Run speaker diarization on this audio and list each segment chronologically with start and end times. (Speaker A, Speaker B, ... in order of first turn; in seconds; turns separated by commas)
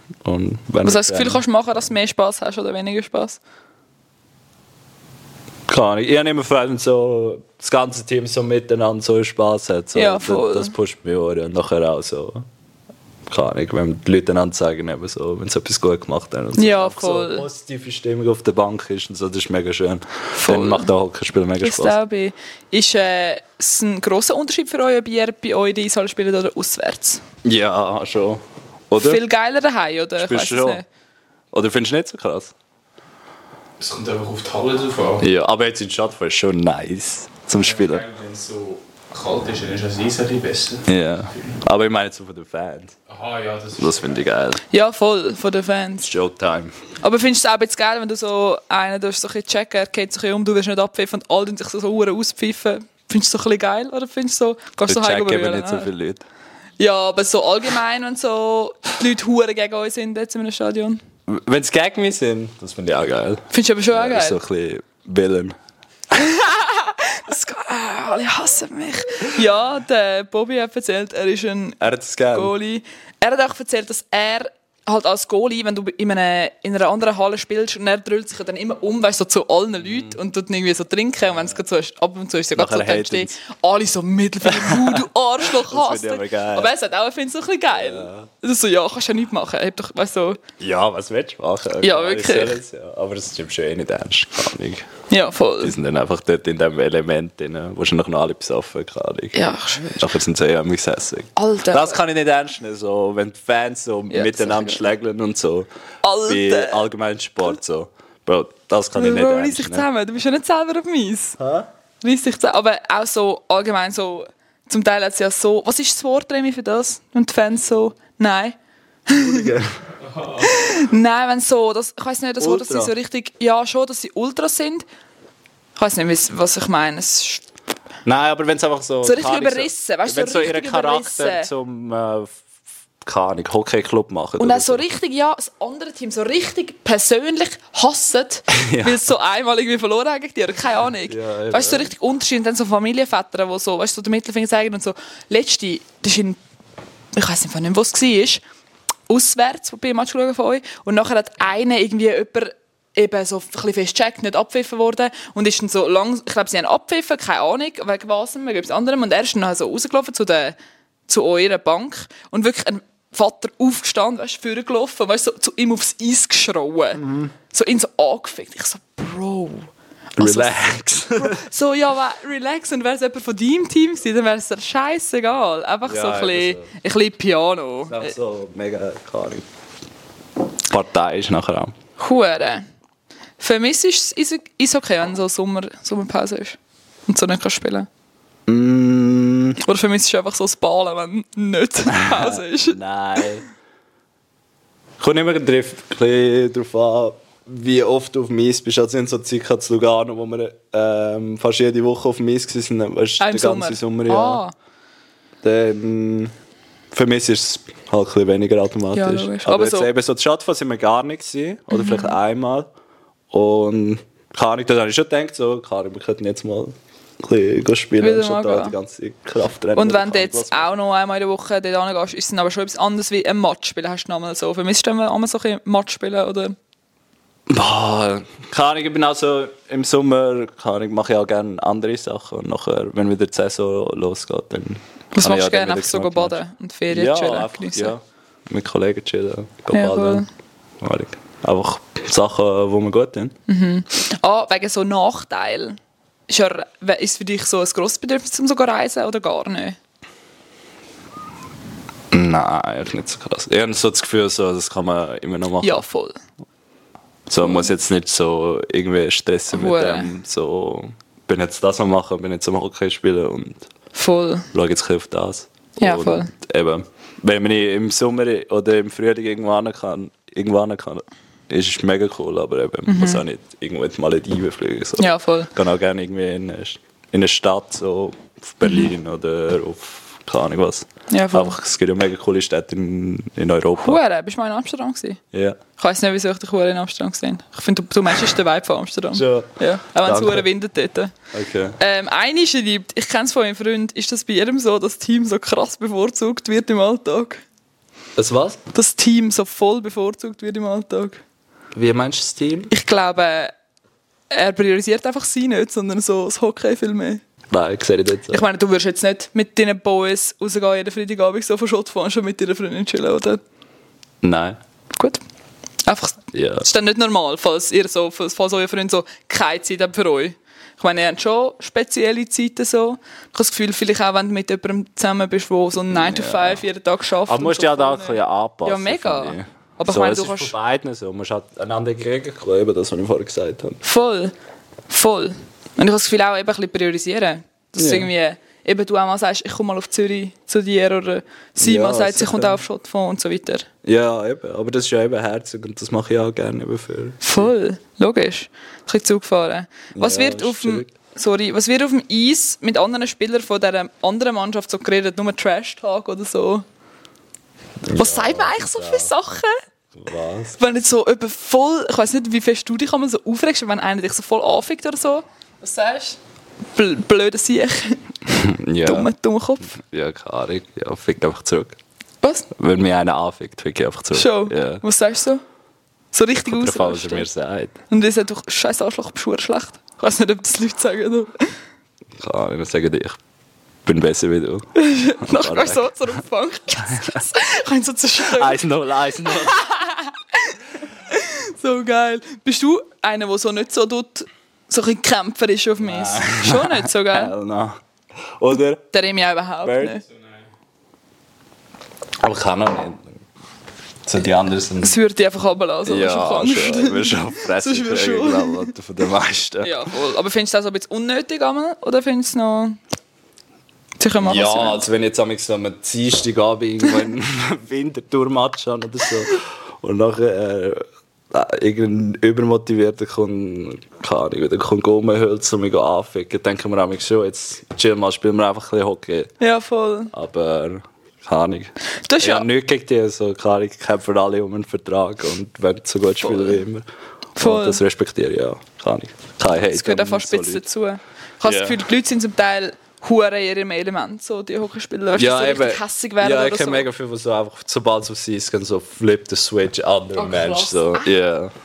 Speaker A: 0.2-1.4, Speaker B: 0.8-3.4, Speaker A: 5.7-12.5, Speaker B: 9.9-10.7, Speaker A: 13.3-22.0, Speaker B: 16.6-17.5, Speaker B: 20.4-20.9, Speaker B: 21.6-27.2, Speaker A: 27.4-29.2, Speaker B: 29.0-30.9, Speaker A: 30.2-30.8, Speaker A: 31.5-32.5, Speaker C: 33.8-35.3, Speaker A: 35.2-38.0, Speaker C: 37.6-41.6, Speaker A: 40.9-43.0, Speaker C: 43.1-44.2, Speaker A: 43.8-44.6, Speaker B: 44.7-46.1, Speaker A: 46.0-46.7, Speaker B: 47.0-55.9, Speaker A: 54.9-56.2, Speaker B: 56.8-61.0, Speaker A: 61.3-65.6, Speaker B: 63.5-64.4, Speaker B: 66.1-90.4, Speaker A: 71.8-72.5, Speaker A: 79.8-80.2, Speaker A: 82.5-83.3, Speaker A: 84.4-86.7, Speaker A: 87.7-88.3, Speaker A: 90.6-94.9, Speaker B: 91.8-92.6, Speaker B: 95.1-95.8, Speaker A: 95.6-105.7, Speaker B: 99.3-100.0, Speaker B: 101.4-102.0, Speaker B: 104.1-104.9, Speaker B: 106.0-106.9, Speaker A: 106.3-109.9, Speaker B: 109.0-111.4, Speaker A: 111.4-111.7, Speaker B: 112.0-118.6, Speaker B: 119.1-119.5, Speaker A: 119.1-119.8, Speaker B: 120.3-124.9, Speaker A: 122.4-122.9, Speaker B: 125.8-127.4, Speaker A: 128.1-132.4, Speaker B: 129.0-131.5, Speaker A: 133.0-134.9, Speaker B: 134.4-146.4, Speaker A: 138.5-139.1, Speaker A: 141.1-141.9, Speaker B: 147.1-148.4, Speaker B: 149.1-160.6, Speaker B: 161.1-170.6, Speaker A: 167.0-167.3, Speaker A: 170.2-171.4, Speaker B: 171.2-178.1, Speaker A: 175.8-176.7, Speaker A: 177.9-179.5, Speaker A: 180.7-181.7, Speaker B: 182.0-182.7, Speaker B: 183.4-187.9, Speaker A: 188.5-189.6, Speaker B: 189.6-193.4, Speaker A: 191.9-193.4, Speaker A: 195.0-204.4, Speaker B: 203.2-204.5, Speaker A: 205.4-206.3, Speaker A: 206.9-212.7, Speaker B: 208.9-209.9, Speaker B: 211.7-212.2, Speaker A: 213.3-220.7, Speaker B: 218.0-218.8, Speaker B: 219.8-226.6, Speaker A: 227.5-236.4, Speaker B: 235.2-237.9, Speaker A: 236.9-240.3, Speaker B: 239.7-240.3, Speaker A: 240.8-243.3, Speaker B: 243.5-245.8, Speaker B: 246.3-249.8, Speaker A: 252.1-255.8, Speaker B: 255.6-256.2, Speaker A: 257.3-263.7, Speaker B: 257.4-257.7, Speaker B: 259.5-260.1, Speaker B: 263.9-264.5, Speaker A: 264.5-284.0, Speaker B: 265.8-266.3, Speaker B: 272.9-273.2, Speaker B: 275.0-275.5, Speaker B: 281.1-281.6, Speaker B: 283.8-285.2, Speaker A: 285.3-285.6, Speaker B: 285.8-291.1, Speaker A: 289.1-290.5, Speaker A: 291.3-291.8, Speaker B: 291.8-297.4, Speaker A: 298.2-298.6, Speaker B: 298.7-301.2, Speaker A: 301.7-302.7, Speaker B: 302.7-303.5, Speaker B: 304.3-307.2, Speaker A: 307.5-308.4, Speaker B: 308.3-313.4, Speaker A: 314.2-314.6, Speaker B: 314.9-315.2, Speaker B: 315.9-330.6, Speaker A: 316.3-316.6, Speaker A: 325.9-326.6, Speaker A: 327.3-333.8, Speaker B: 333.8-334.3, Speaker B: 334.9-343.7, Speaker A: 337.8-338.1, Speaker A: 341.6-342.6, Speaker A: 343.8-347.5, Speaker B: 347.2-356.6, Speaker A: 349.9-350.9, Speaker A: 357.8-359.1, Speaker B: 357.9-359.6, Speaker A: 359.9-360.6, Speaker B: 360.6-366.2, Speaker B: 366.8-368.0, Speaker A: 368.3-369.1, Speaker B: 368.8-369.8, Speaker A: 369.7-371.8, Speaker B: 372.2-372.5, Speaker A: 372.5-374.8, Speaker B: 374.1-375.4, Speaker B: 376.1-377.3, Speaker A: 376.4-377.8, Speaker B: 377.9-381.6, Speaker A: 382.2-383.2, Speaker A: 383.9-384.7, Speaker B: 384.8-388.6, Speaker A: 385.2-386.2, Speaker A: 386.8-387.2, Speaker A: 388.2-389.6, Speaker B: 389.3-397.3, Speaker A: 395.8-397.8, Speaker A: 398.4-398.8, Speaker B: 398.9-400.0, Speaker A: 399.6-400.0, Speaker A: 402.2-403.2, Speaker A: 404.1-405.0, Speaker B: 404.8-408.7, Speaker A: 405.9-409.9, Speaker B: 409.6-412.8, Speaker B: 414.0-414.9, Speaker A: 414.2-429.3, Speaker B: 429.4-430.1, Speaker A: 430.1-436.9, Speaker B: 432.0-432.5, Speaker B: 436.2-436.6, Speaker B: 437.4-437.8, Speaker A: 437.4-440.7, Speaker B: 439.6-446.9, Speaker A: 441.4-441.8, Speaker A: 445.2-451.5, Speaker B: 450.2-451.1